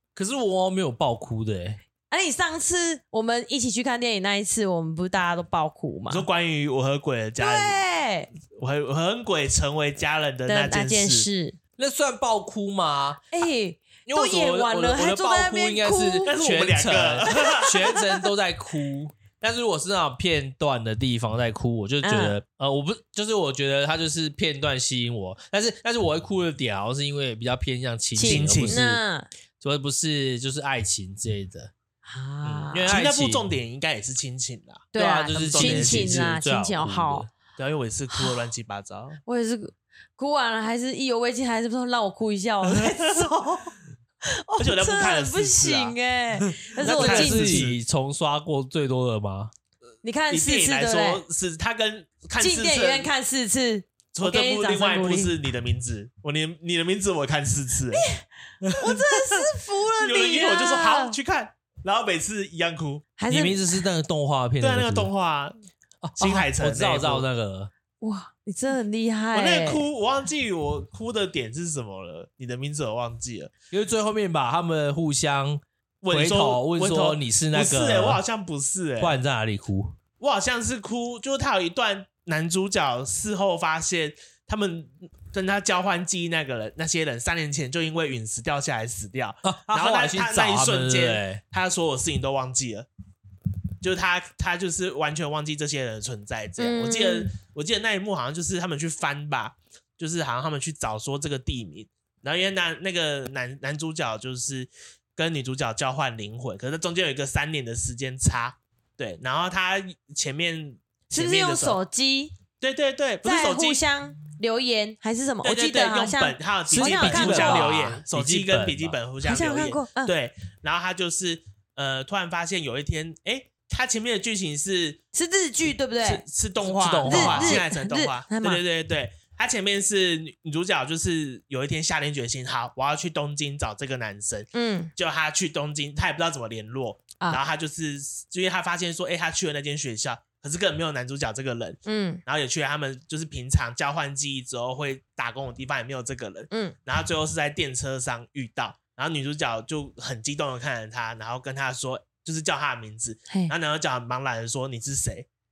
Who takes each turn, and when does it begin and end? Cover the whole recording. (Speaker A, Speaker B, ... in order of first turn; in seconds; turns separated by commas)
Speaker A: 0.1-1.8, Speaker B: 2.1-6.3, Speaker C: 6.1-7.8, Speaker B: 7.4-8.3, Speaker C: 8.5-11.3, Speaker B: 10.4-11.6, Speaker A: 11.8-13.2, Speaker B: 13.3-16.3, Speaker A: 14.1-29.0, Speaker C: 16.2-17.8, Speaker B: 17.3-18.0, Speaker B: 22.0-22.4, Speaker B: 28.1-29.3, Speaker C: 28.2-28.8, Speaker A: 29.6-31.7, Speaker B: 32.0-32.9, Speaker A: 32.4-33.5, Speaker C: 32.9-36.3, Speaker B: 34.9-37.3, Speaker A: 35.0-37.3, Speaker C: 37.6-39.2, Speaker B: 38.1-38.4, Speaker B: 39.2-43.7, Speaker C: 42.6-43.4, Speaker B: 44.3-47.7, Speaker C: 44.6-47.8, Speaker A: 46.8-49.5, Speaker B: 50.0-51.2, Speaker C: 50.3-53.1, Speaker B: 52.4-55.3, Speaker C: 54.1-58.0, Speaker B: 57.9-58.2, Speaker C: 58.6-59.4, Speaker B: 58.8-61.1, Speaker C: 60.0-63.1, Speaker B: 63.2-63.6, Speaker A: 63.3-65.1, Speaker C: 64.6-65.5, Speaker A: 66.0-67.7, Speaker C: 66.2-67.2, Speaker B: 68.0-69.8, Speaker C: 69.3-73.5, Speaker A: 73.7-78.2, Speaker C: 76.0-79.2, Speaker A: 79.0-80.0, Speaker C: 80.2-92.9, Speaker A: 89.4-91.4, Speaker C: 93.8-111.8, Speaker B: 96.6-97.3, Speaker B: 111.1-112.3, Speaker C: 112.6-113.8, Speaker B: 113.2-117.7, Speaker C: 115.4-125.0, Speaker A: 116.7-119.0, Speaker B: 119.2-120.1, Speaker B: 125.1-126.2, Speaker C: 126.0-155.3, Speaker A: 126.6-127.6, Speaker B: 127.0-128.6, Speaker B: 134.5-134.9, Speaker B: 141.8-142.2